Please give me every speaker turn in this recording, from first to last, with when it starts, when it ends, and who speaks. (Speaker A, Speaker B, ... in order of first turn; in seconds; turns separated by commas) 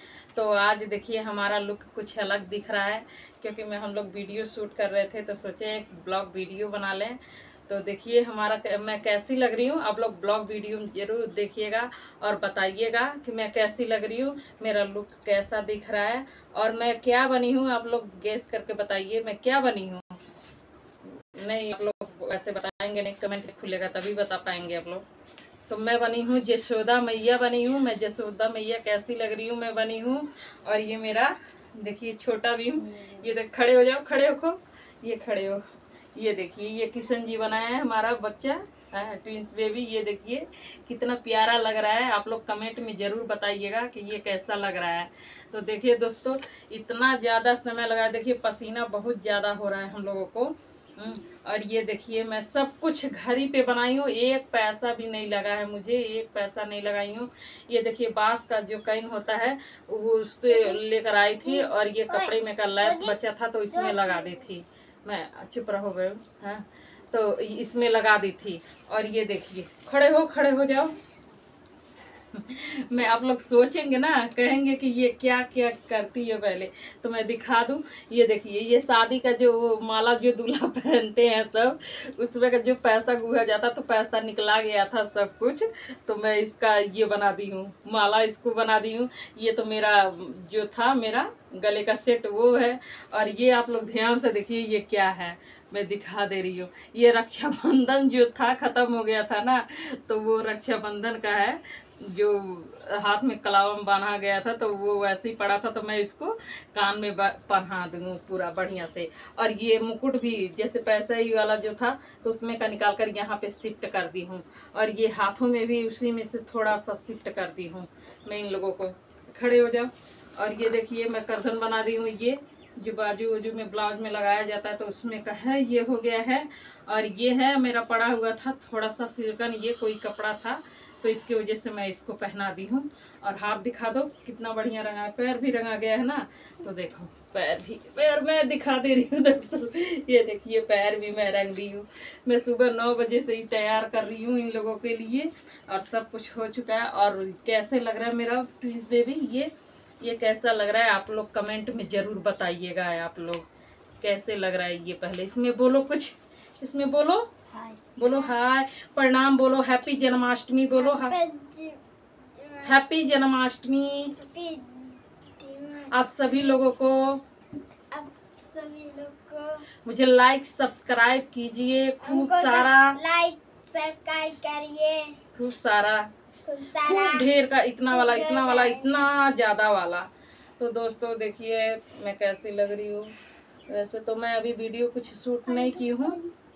Speaker A: 0.3-20.2, Speaker A: 21.3-25.0, Speaker A: 25.7-35.6, Speaker A: 36.1-70.9, Speaker B: 60.5-60.8, Speaker B: 61.4-63.1, Speaker B: 63.7-64.4, Speaker A: 72.3-153.4, Speaker A: 154.0-157.3, Speaker B: 157.5-158.2, Speaker A: 158.0-161.2, Speaker B: 160.8-161.8, Speaker B: 162.3-162.8, Speaker A: 162.6-164.2, Speaker B: 164.2-165.9, Speaker A: 165.9-167.2, Speaker B: 167.9-169.6, Speaker A: 169.8-173.0, Speaker B: 172.0-175.2, Speaker A: 175.3-176.1, Speaker B: 176.4-177.3, Speaker A: 176.8-183.1, Speaker B: 177.9-179.1, Speaker A: 183.7-186.2, Speaker B: 185.5-186.3